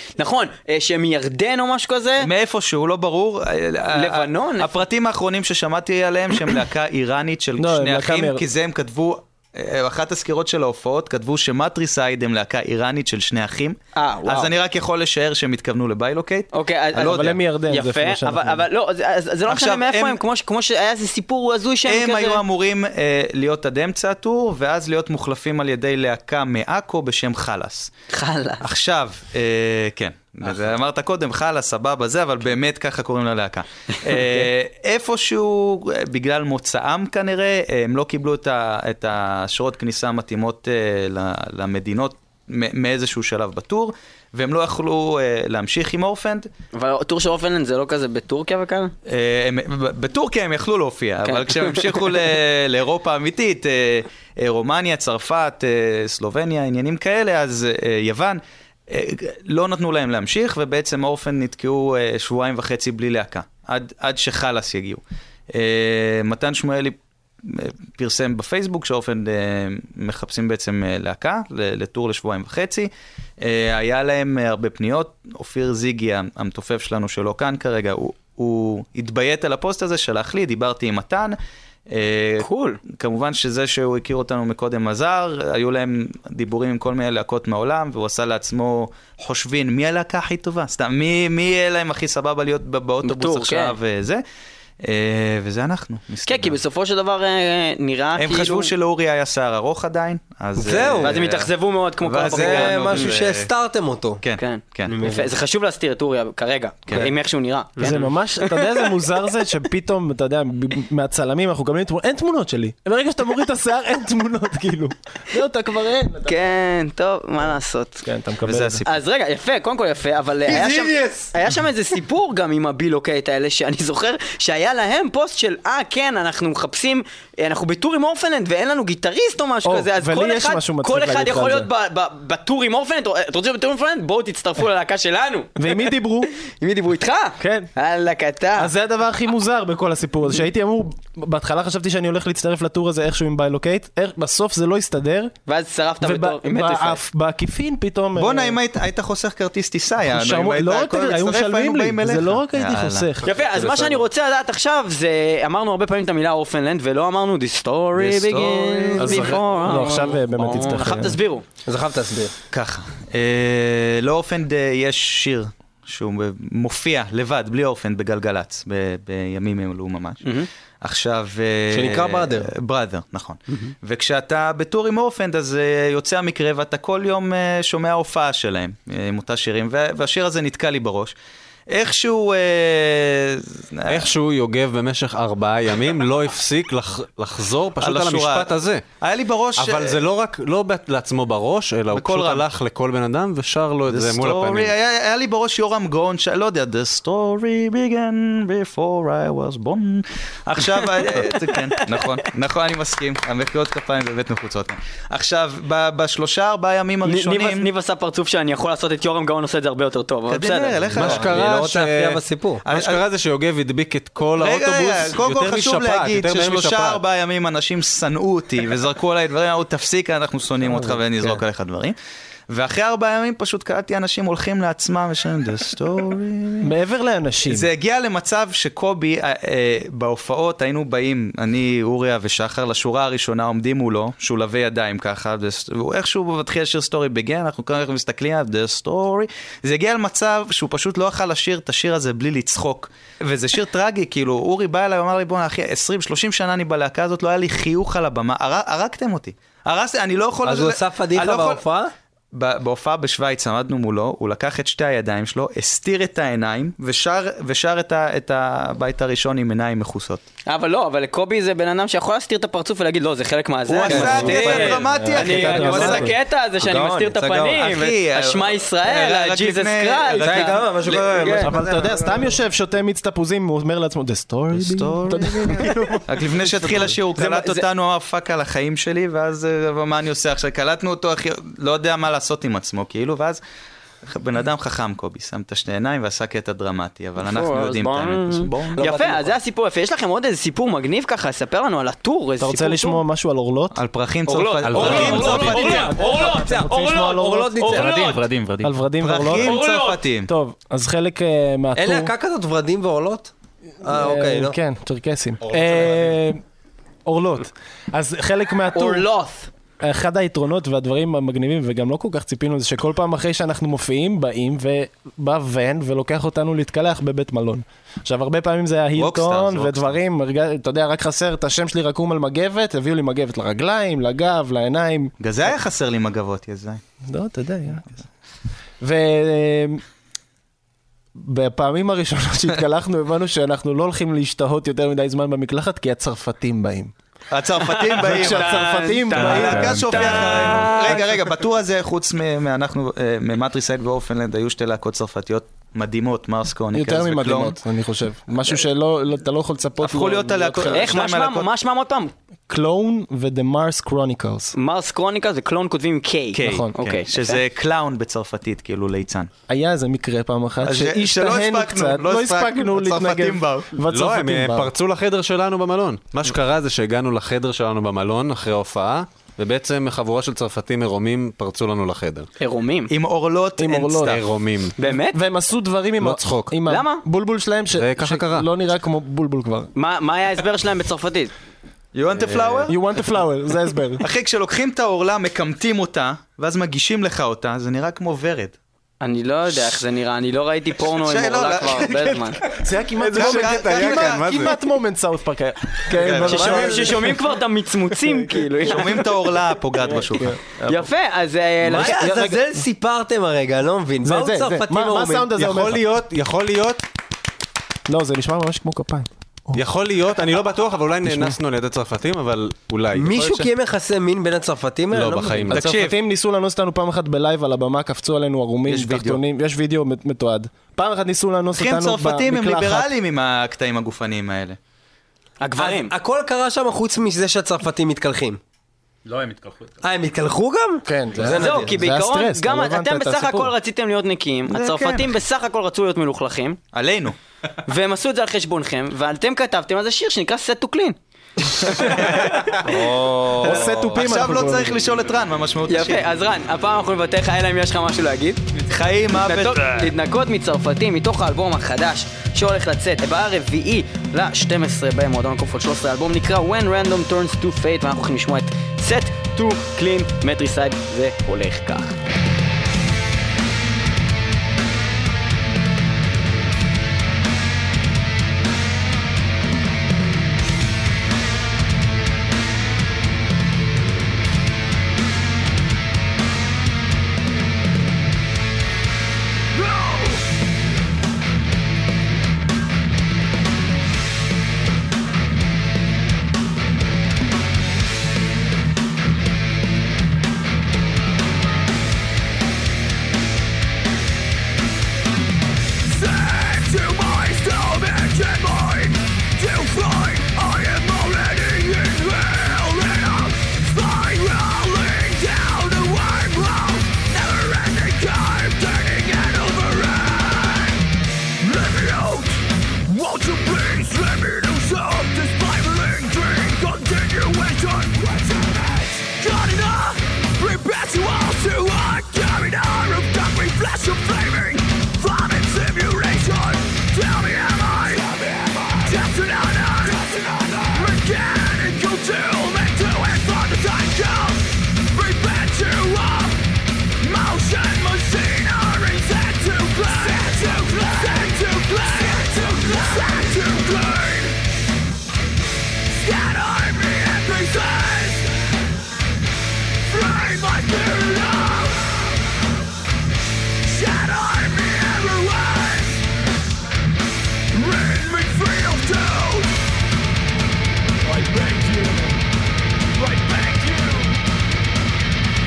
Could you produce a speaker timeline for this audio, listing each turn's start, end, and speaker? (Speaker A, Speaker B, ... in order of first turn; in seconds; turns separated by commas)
Speaker A: 0.2-2.3, Speaker B: 2.2-17.3, Speaker A: 3.9-4.8, Speaker C: 7.6-8.4, Speaker A: 13.9-14.5, Speaker A: 16.5-22.4, Speaker C: 16.9-18.7, Speaker B: 19.5-20.2, Speaker B: 21.8-27.9, Speaker A: 28.1-28.6, Speaker B: 28.6-46.5, Speaker A: 46.7-48.9, Speaker B: 49.1-65.0, Speaker A: 51.2-52.0, Speaker B: 65.5-81.3, Speaker B: 81.9-94.2, Speaker A: 82.4-82.8, Speaker A: 93.0-93.8, Speaker B: 94.8-96.6, Speaker A: 96.2-98.7, Speaker B: 98.2-101.5, Speaker D: 100.5-101.2, Speaker A: 101.0-103.1, Speaker B: 102.0-103.5, Speaker D: 102.2-104.2, Speaker B: 104.2-105.0, Speaker A: 104.4-108.9, Speaker D: 104.9-105.3, Speaker D: 107.8-108.0, Speaker C: 107.8-116.4, Speaker A: 116.2-118.1, Speaker C: 118.0-118.8, Speaker B: 118.4-118.9, Speaker A: 118.8-138.7, Speaker D: 120.5-121.3, Speaker C: 129.6-131.7, Speaker C: 135.6-136.3, Speaker C: 137.4-137.7, Speaker C: 138.6-145.3, Speaker A: 145.5-147.0, Speaker C: 146.0-148.6, Speaker B: 148.2-153.2, Speaker C: 150.0-153.3, Speaker A: 153.2-161.4, Speaker D: 153.3-154.0, Speaker B: 157.9-159.4, Speaker C: 159.0-161.2, Speaker D: 161.7-162.3, Speaker B: 162.5-170.3, Speaker A: 170.2-170.5, Speaker B: 170.8-181.1, Speaker D: 171.7-172.5, Speaker B: 181.7-184.1, Speaker E: 183.9-188.8, Speaker B: 187.8-190.0, Speaker E: 189.6-194.7, Speaker B: 191.9-192.4, Speaker B: 193.9-207.7, Speaker A: 201.1-202.1, Speaker A: 207.0-210.8, Speaker B: 210.3-211.4, Speaker E: 210.9-217.0, Speaker D: 211.0-212.6, Speaker B: 212.7-213.0, Speaker B: 214.3-221.9, Speaker B: 222.5-226.7, Speaker C: 226.6-227.7, Speaker B: 227.5-251.6, Speaker D: 250.4-251.9, Speaker B: 252.3-260.2, Speaker A: 260.4-271.5, Speaker B: 263.6-266.1, Speaker C: 263.9-266.1, Speaker D: 263.9-264.8, Speaker D: 265.4-266.0, Speaker D: 266.7-267.0, Speaker B: 266.7-271.1, Speaker D: 270.1-272.3, Speaker C: 271.4-276.9, Speaker B: 274.5-283.4, Speaker A: 277.1-277.6, Speaker B: 284.0-288.8, Speaker A: 287.2-293.0, Speaker D: 288.7-289.3, Speaker C: 292.4-293.8, Speaker B: 293.7-295.8, Speaker A: 294.3-298.2, Speaker F: 294.6-294.9, Speaker D: 294.7-298.0, Speaker C: 294.9-297.8, Speaker F: 297.7-298.8, Speaker C: 298.6-299.6, Speaker B: 299.0-300.3, Speaker A: 299.4-300.0, Speaker C: 300.2-302.1, Speaker D: 301.8-304.6, Speaker C: 303.8-306.4, Speaker E: 305.5-306.0, Speaker C: 307.1-309.1, Speaker A: 308.7-309.5, Speaker C: 309.8-325.1, Speaker B: 318.9-320.0, Speaker B: 325.2-326.8, Speaker C: 327.1-327.9, Speaker C: 328.8-329.8, Speaker C: 331.2-336.9, Speaker B: 337.3-347.6, Speaker A: 337.6-341.1, Speaker C: 337.9-340.8, Speaker C: 346.7-350.9, Speaker B: 349.8-351.5, Speaker A: 350.7-352.1, Speaker C: 352.5-354.5, Speaker A: 354.5-357.4, Speaker B: 356.3-359.3, Speaker C: 356.4-356.7, Speaker C: 359.5-364.7, Speaker B: 360.6-363.8, Speaker E: 363.9-372.3, Speaker A: 372.4-372.9, Speaker B: 372.9-374.2, Speaker C: 373.6-374.2, Speaker E: 374.0-374.8, Speaker A: 374.8-375.2, Speaker C: 374.9-379.7, Speaker E: 376.0-376.5, Speaker A: 376.6-377.0, Speaker E: 377.7-378.5, Speaker A: 379.8-381.3, Speaker B: 381.9-382.8, Speaker E: 382.2-382.7, Speaker C: 382.7-384.0, Speaker B: 384.0-388.6, Speaker A: 389.0-392.4, Speaker B: 390.8-394.5, Speaker C: 392.6-397.2, Speaker E: 393.0-394.6, Speaker B: 395.9-397.1, Speaker A: 396.2-398.9, Speaker C: 398.0-398.5, Speaker B: 398.6-400.4, Speaker C: 399.8-400.9, Speaker A: 400.7-402.1, Speaker D: 401.6-405.3, Speaker C: 401.8-402.6, Speaker C: 404.0-405.8, Speaker E: 405.4-406.8, Speaker C: 407.9-409.6, Speaker E: 409.5-413.1, Speaker C: 411.0-411.4, Speaker D: 412.9-415.5, Speaker B: 413.1-413.4, Speaker E: 414.9-415.8, Speaker C: 415.4-422.9, Speaker B: 415.5-416.0, Speaker B: 418.6-419.2, Speaker B: 421.5-424.6, Speaker A: 425.4-425.9, Speaker D: 425.6-428.4, Speaker F: 429.0-429.8, Speaker D: 429.8-431.7, Speaker C: 430.9-433.5, Speaker A: 431.4-436.6, Speaker B: 434.5-435.1, Speaker B: 436.7-437.1, Speaker A: 437.7-442.7, Speaker B: 441.8-446.1, Speaker C: 443.4-444.8, Speaker A: 445.7-448.4, Speaker B: 448.7-449.9, Speaker A: 449.1-462.0, Speaker G: 479.5-480.2, Speaker G: 495.9-510.8, Speaker G: 511.4-536.4, Speaker G: 537.0-544.4, Speaker G: 545.9-548.5, Speaker G: 549.9-552.1, Speaker G: 553.6-556.1, Speaker G: 557.5-559.5, Speaker G: 561.0-562.2, Speaker G: 563.0-564.2